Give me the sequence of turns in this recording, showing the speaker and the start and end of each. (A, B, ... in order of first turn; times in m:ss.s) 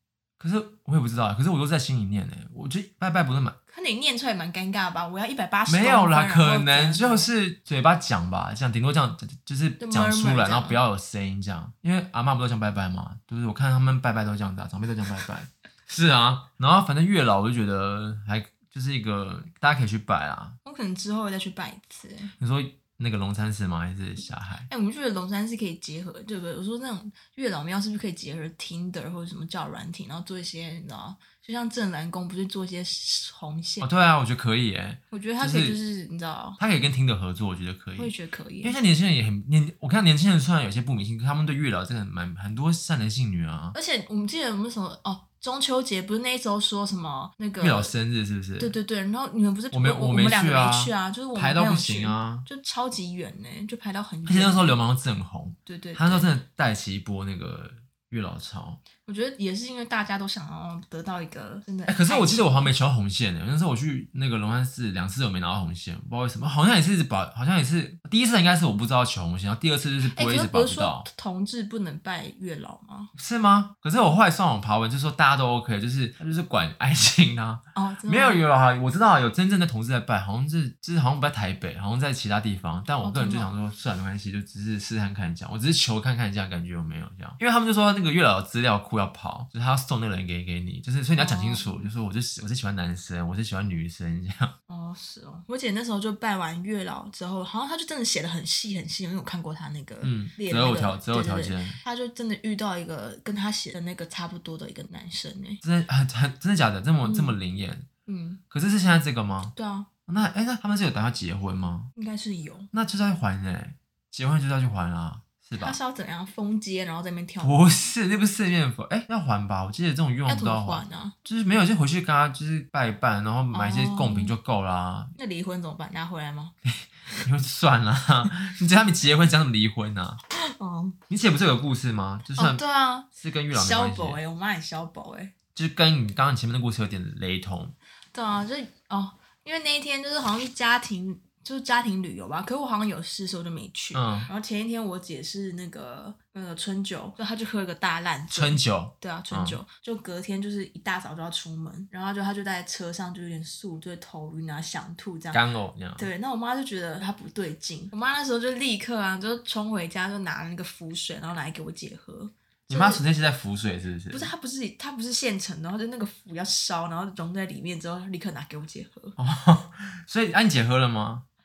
0:00.4-0:03.6 A
0:03.7-0:07.3 B
0:05.7-0:20.6 A
0:09.8-0:10.8 B
0:20.6-0:22.3 B
0:22.4-0:24.7 A
0:24.7-0:33.9 B
0:33.8-0:35.8 A
0:35.1-0:36.6 B
0:36.6-0:43.8 A
0:38.0-0:38.8 B
0:43.7-0:47.9 B
0:47.6-0:48.8 A
0:48.6-0:54.8 B
0:49.7-0:52.5 A
0:54.3-0:58.8 A
0:55.7-0:56.3 B
0:59.0-1:02.7 B
1:01.9-1:11.1 A
1:10.0-1:13.1 B
1:13.2-1:34.5 A
1:17.8-1:18.4 B
1:23.0-1:23.5 B
1:31.2-1:31.9 B
1:34.7-1:45.6 B
1:40.0-1:41.8 A
1:45.6-1:47.9 A
1:47.0-1:47.4 B
1:48.1-1:48.4 B
1:48.5-1:49.6 A
1:49.6-1:49.9 B
1:50.1-1:51.9 A
1:52.0-1:52.7 B
1:52.7-1:55.8 A
1:55.6-1:57.8 B
1:57.4-2:05.1 A
2:00.3-2:01.2 B
2:03.5-2:04.4 B
2:05.2-2:06.5 B
2:06.6-2:10.2 A
2:10.3-2:11.0 B
2:11.1-2:12.6 A
2:12.4-2:15.3 B
2:13.2-2:14.2 A
2:15.6-2:17.7 A
2:18.1-2:35.4 B
2:23.9-2:24.3 A
2:28.3-2:29.6 A
2:35.3-2:36.1 A
2:36.0-2:43.0 B
2:42.7-2:44.3 A
2:44.1-2:49.2 B
2:49.2-2:51.2 A